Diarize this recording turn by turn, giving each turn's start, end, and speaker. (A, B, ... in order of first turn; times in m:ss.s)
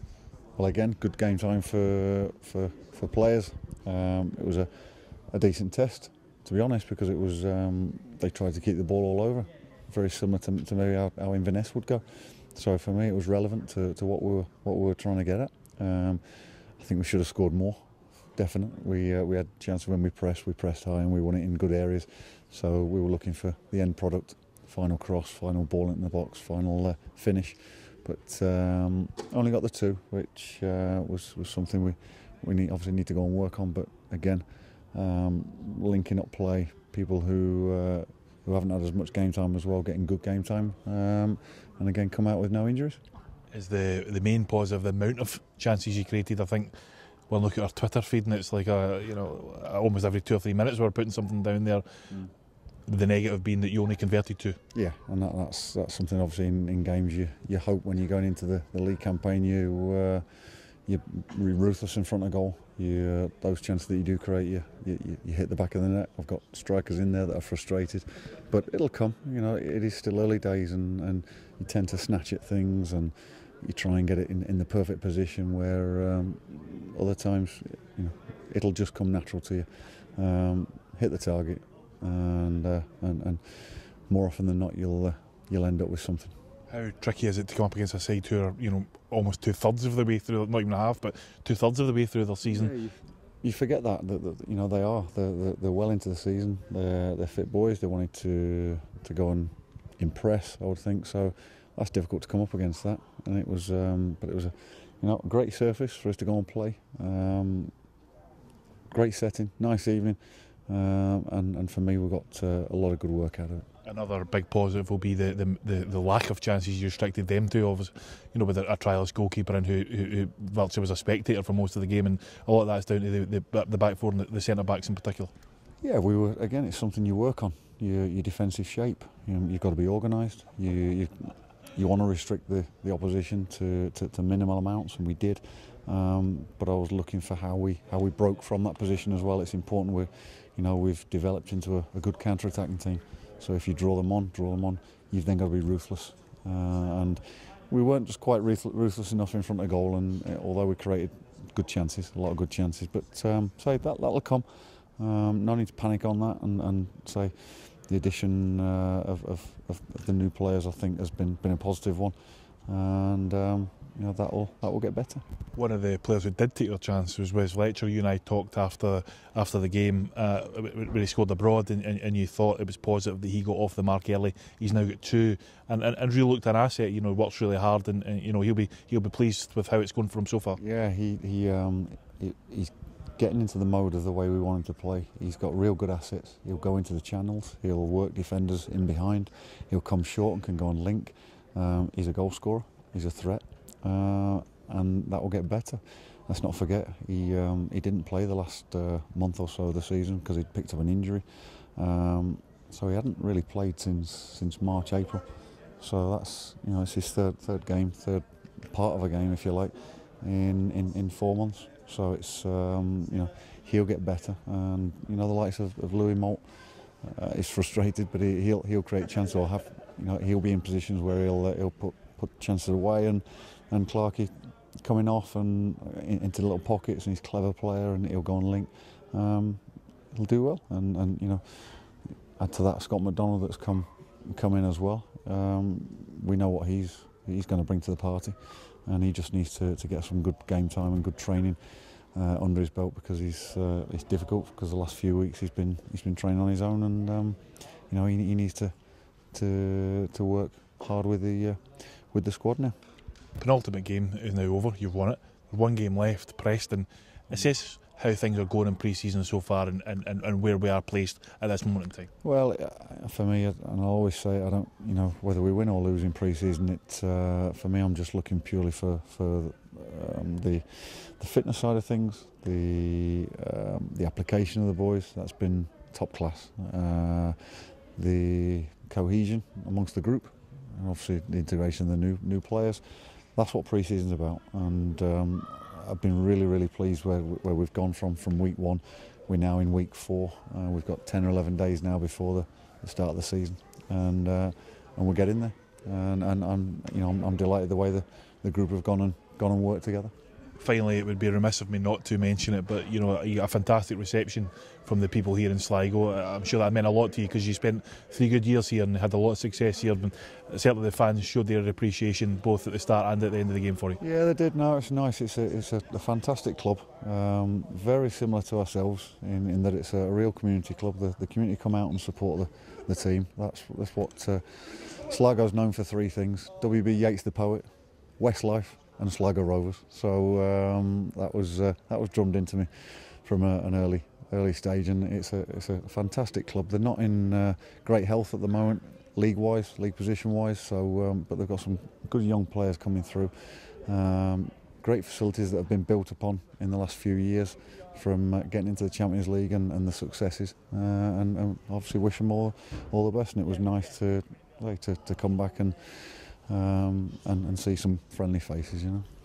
0:00.6-0:04.7 A
0:05.3-0:17.8 A
0:18.4-0:43.0 A
0:43.5-0:46.7 B
0:47.3-0:51.9 B
0:52.9-0:54.6 B
0:54.7-1:26.3 A
1:26.7-1:32.7 B
1:32.5-1:47.7 A
1:48.9-1:53.7 A
1:53.8-2:05.3 B
2:05.8-2:34.5 A
2:35.0-2:42.2 A
2:42.7-2:45.2 A
2:45.6-3:00.6 B
3:00.6-3:25.2 A
3:25.8-3:44.3 A
3:44.8-3:49.6 A
3:50.1-4:08.7 A
4:09.3-4:12.8 A
4:13.4-4:22.1 B
4:22.2-5:00.1 A
5:00.6-5:14.0 B
5:14.0-5:27.6 A
5:28.2-5:59.1 A